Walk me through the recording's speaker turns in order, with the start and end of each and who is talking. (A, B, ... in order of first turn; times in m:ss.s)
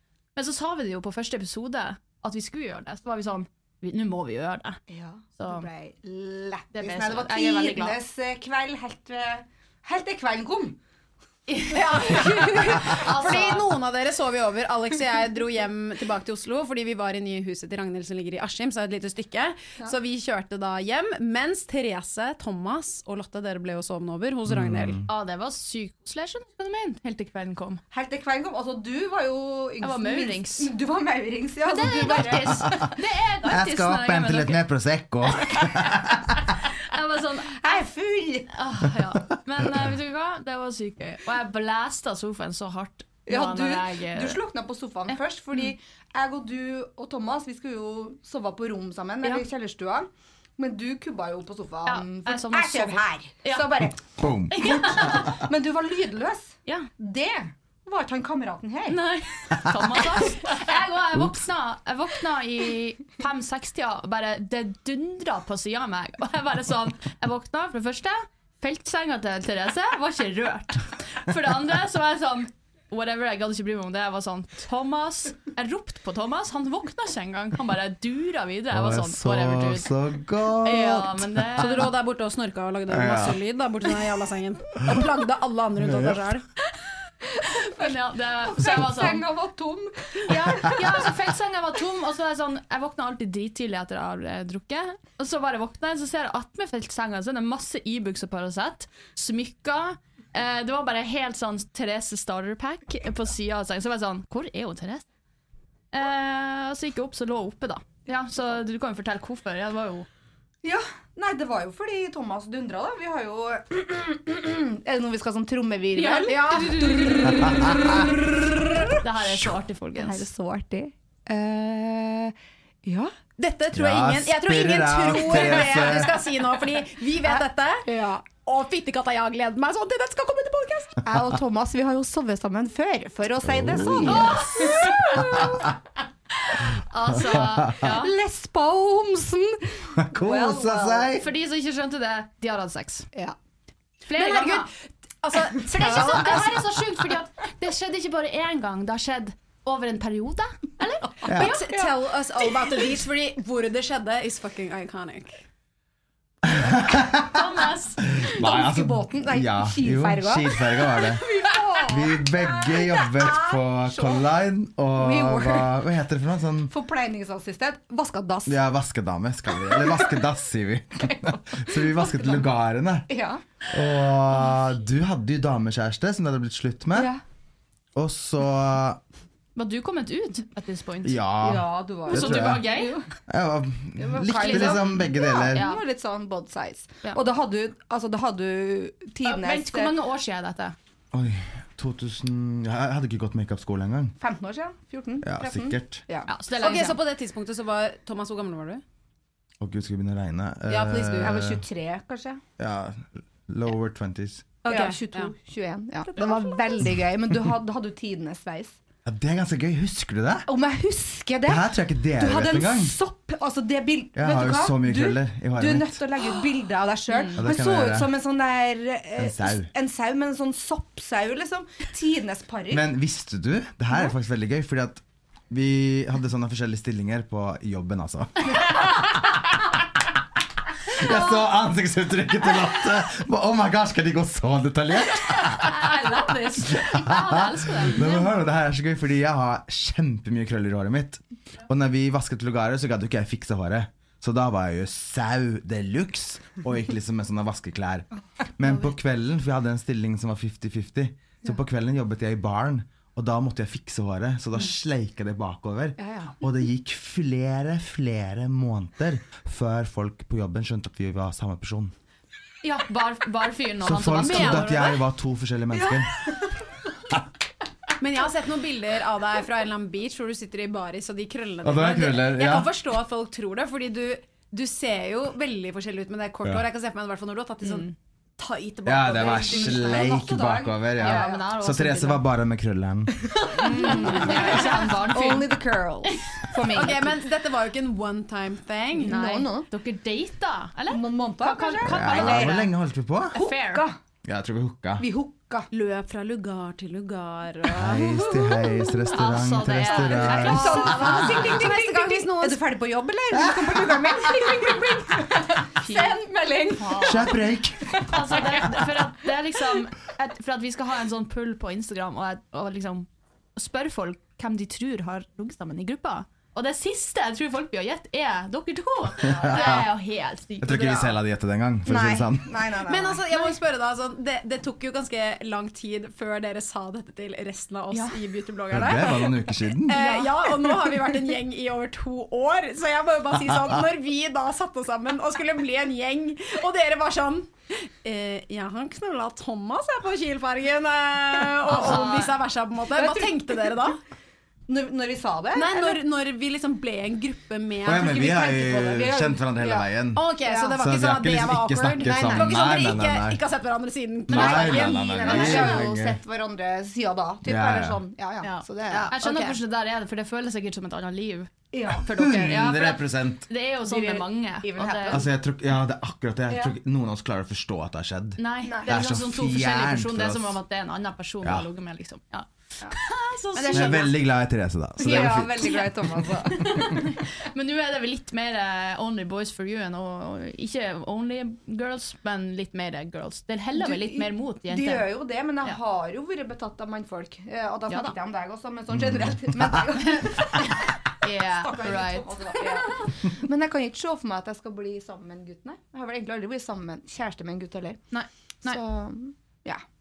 0:00.4-0:04.8 A
0:04.9-0:10.8 B
0:05.4-0:05.7 A
0:06.7-0:08.0 A
0:11.5-0:13.7 A
0:11.7-0:25.0 C
0:24.5-0:25.1 D
0:25.1-0:27.8 A
0:27.9-0:33.0 B
0:29.8-0:30.7 A
0:31.6-0:34.6 A
0:32.4-0:32.8 D
0:33.4-0:36.6 D
0:35.3-0:36.0 A
0:36.6-0:37.9 A
0:37.4-0:38.5 B
0:38.5-0:44.4 A
0:43.3-0:54.1 B
0:45.1-0:45.7 A
0:51.8-0:53.8 A
0:54.2-0:55.4 D
0:54.5-0:55.4 A
0:54.7-0:59.0 B
0:58.9-1:19.9 A
1:18.7-1:21.9 D
1:20.5-1:21.9 A
1:21.6-1:26.5 C
1:22.9-1:23.4 D
1:25.8-1:26.2 D
1:27.4-1:31.1 B
1:27.7-1:29.3 A
1:30.3-1:45.0 A
1:45.9-1:50.1 A
1:50.6-1:59.0 B
1:56.0-1:57.1 A
1:56.0-1:58.0 C
1:57.3-1:57.8 D
1:59.0-2:00.3 A
2:00.0-2:03.2 B
2:03.4-2:11.0 C
2:03.7-2:06.2 D
2:05.4-2:06.0 B
2:07.2-2:08.2 B
2:11.0-2:15.7 B
2:13.4-2:15.6 D
2:14.0-2:15.5 A
2:16.8-2:18.1 A
2:17.2-2:17.8 D
2:17.2-2:21.2 B
2:20.0-2:21.3 D
2:21.2-2:23.1 A
2:24.1-2:24.7 A
2:24.2-2:26.9 C
2:25.7-2:32.5 A
2:31.3-2:31.6 D
2:31.3-2:35.4 C
2:36.4-2:37.4 D
2:37.2-2:38.2 A
2:38.1-2:41.2 D
2:38.4-2:44.2 B
2:41.9-2:46.7 D
2:45.0-2:45.8 B
2:46.7-2:48.6 B
2:48.5-2:53.1 D
2:49.5-2:50.2 B
2:51.1-2:52.5 B
2:53.1-2:53.4 B
2:53.7-2:57.1 D
2:56.9-2:57.2 B
2:58.0-2:59.0 D
2:59.6-3:01.2 A
3:01.0-3:02.7 D
3:01.4-3:03.1 B
3:02.1-3:03.0 A
3:03.3-3:05.7 D
3:04.0-3:10.0 B
3:04.3-3:05.8 A
3:09.2-3:10.8 A
3:11.1-3:14.2 D
3:14.2-3:16.3 B
3:15.2-3:16.0 D
3:16.3-3:17.0 A
3:16.6-3:18.8 C
3:19.6-3:21.6 D
3:20.7-3:21.5 C
3:21.2-3:22.4 B
3:22.6-3:24.5 D
3:24.6-3:25.3 C
3:24.7-3:28.8 B
3:26.2-3:26.6 C
3:29.0-3:30.5 D
3:30.5-3:42.9 B
3:31.4-3:33.0 D
3:34.2-3:36.1 D
3:37.4-3:38.1 D
3:39.2-3:39.7 D
3:42.7-3:49.1 D
3:50.9-4:21.9 D
3:55.3-3:58.3 A
4:16.0-4:16.4 B
4:22.6-4:25.0 A
4:23.8-4:26.1 D
4:24.2-4:24.9 C
4:25.7-4:26.6 B
4:28.0-4:40.1 C
4:31.6-4:32.7 D
4:37.6-4:37.9 A
4:38.8-4:43.3 D
4:39.2-4:41.4 B
4:41.0-4:42.3 A
4:43.4-4:47.2 B
4:43.6-4:44.9 C
4:43.6-4:46.9 A
4:46.6-4:49.2 C
4:49.0-4:49.7 B
4:49.0-4:52.7 A
4:50.9-4:52.7 B
4:51.8-4:53.4 D
4:53.3-4:54.0 B
4:53.3-4:53.9 A
4:54.2-4:55.1 D
4:55.0-4:55.7 B
4:55.7-4:59.0 C
4:57.7-5:01.5 D
4:59.1-5:01.3 A
4:59.7-5:02.6 C
5:00.2-5:09.1 B
5:03.3-5:04.7 D
5:05.8-5:07.4 A
5:07.0-5:08.6 D
5:08.1-5:21.2 A
5:19.2-5:19.9 D
5:19.3-5:19.8 B
5:20.6-5:22.7 D
5:21.9-5:23.2 B
5:22.8-5:44.0 C
5:27.9-5:28.2 A
5:28.7-5:30.0 D
5:29.9-5:30.4 A
5:41.7-5:42.4 A
5:42.9-5:43.4 B
5:44.7-5:46.0 B
5:45.5-5:48.5 C
5:47.8-5:53.4 D
5:48.0-5:49.9 B
5:50.1-5:55.9 C
5:50.4-5:50.8 B
5:54.3-5:56.2 D
5:54.3-5:59.1 B
5:57.4-5:58.0 D
5:58.4-6:05.3 A
5:59.1-5:59.6 C
6:01.7-6:02.1 B
6:02.0-6:03.5 D
6:03.8-6:05.3 B
6:05.1-6:10.6 D
6:06.5-6:06.8 B
6:08.4-6:14.1 A
6:08.6-6:09.0 B
6:13.6-6:14.2 C
6:13.7-6:16.8 D
6:15.0-6:17.0 B
6:16.5-6:25.8 A
6:23.8-6:38.0 B
6:27.9-6:28.2 A
6:28.9-6:29.9 D
6:30.0-6:33.0 A
6:38.1-6:38.8 A
6:38.6-6:39.8 B